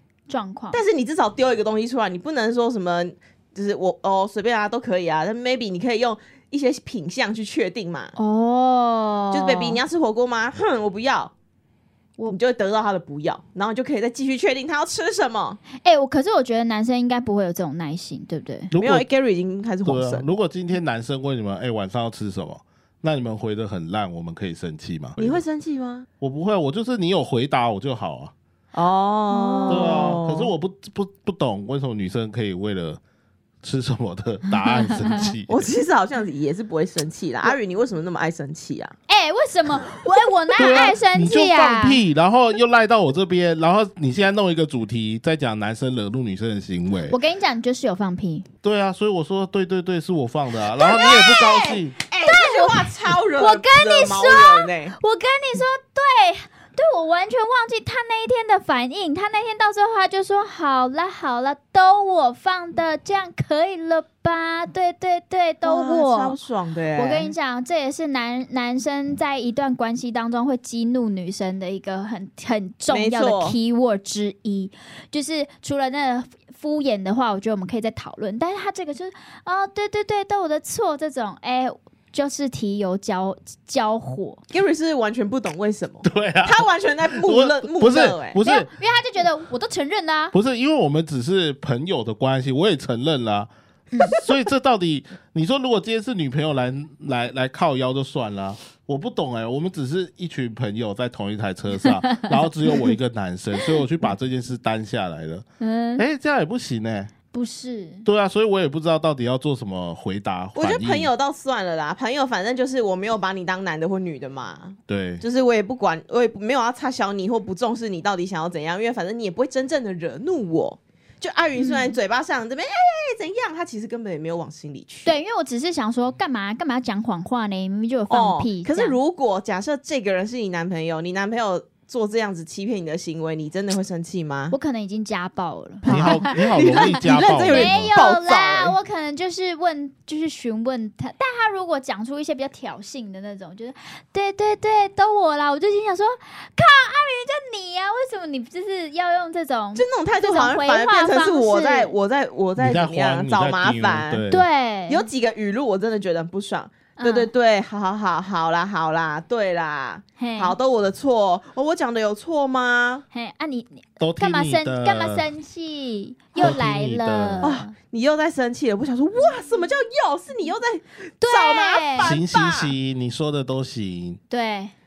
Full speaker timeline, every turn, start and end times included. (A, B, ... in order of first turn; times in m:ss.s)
0:00.3-0:00.8 A
0:00.7-0:08.2 B
0:08.2-0:09.8 A
0:09.3-0:11.3 B
0:12.3-0:15.6 B
0:15.8-0:18.7 A
0:18.7-0:19.0 C
0:18.8-0:20.3 B
0:19.8-0:25.4 C
0:25.2-0:26.1 B
0:26.2-0:28.3 C
0:28.7-0:30.5 B
0:29.3-0:30.2 A
0:29.7-0:33.0 C
0:33.6-0:35.7 C
0:34.7-0:35.2 A
0:35.5-0:39.0 B
0:39.1-0:42.0 A
0:40.6-0:47.2 C
0:47.1-0:48.5 A
0:48.6-0:52.0 C
0:50.7-0:55.0 B
0:52.2-1:06.4 A
1:05.6-1:07.3 B
1:07.0-1:24.4 A
1:12.9-1:13.6 B
1:24.5-1:28.4 B
1:26.0-1:28.7 C
1:28.4-1:30.4 A
1:30.3-1:45.4 C
1:33.9-1:34.2 A
1:42.0-1:42.3 A
1:45.6-1:46.0 A
1:46.0-1:47.1 C
1:47.3-1:48.1 A
1:48.0-1:51.1 C
1:50.6-2:05.2 B
1:54.9-1:55.2 C
2:01.6-2:02.0 A
2:05.0-2:09.0 A
2:08.1-2:14.6 B
2:14.5-2:31.9 A
2:15.8-2:18.8 B
2:15.9-2:18.0 C
2:29.8-2:34.2 B
2:32.6-2:34.5 C
2:34.3-2:35.1 A
2:34.9-2:43.0 B
2:37.0-2:37.3 A
2:40.2-2:40.6 A
2:43.1-2:47.7 A
2:44.0-2:45.3 C
2:46.4-2:47.5 C
2:47.4-2:52.7 B
2:51.2-2:52.2 A
2:52.0-2:54.2 C
2:54.3-2:54.7 A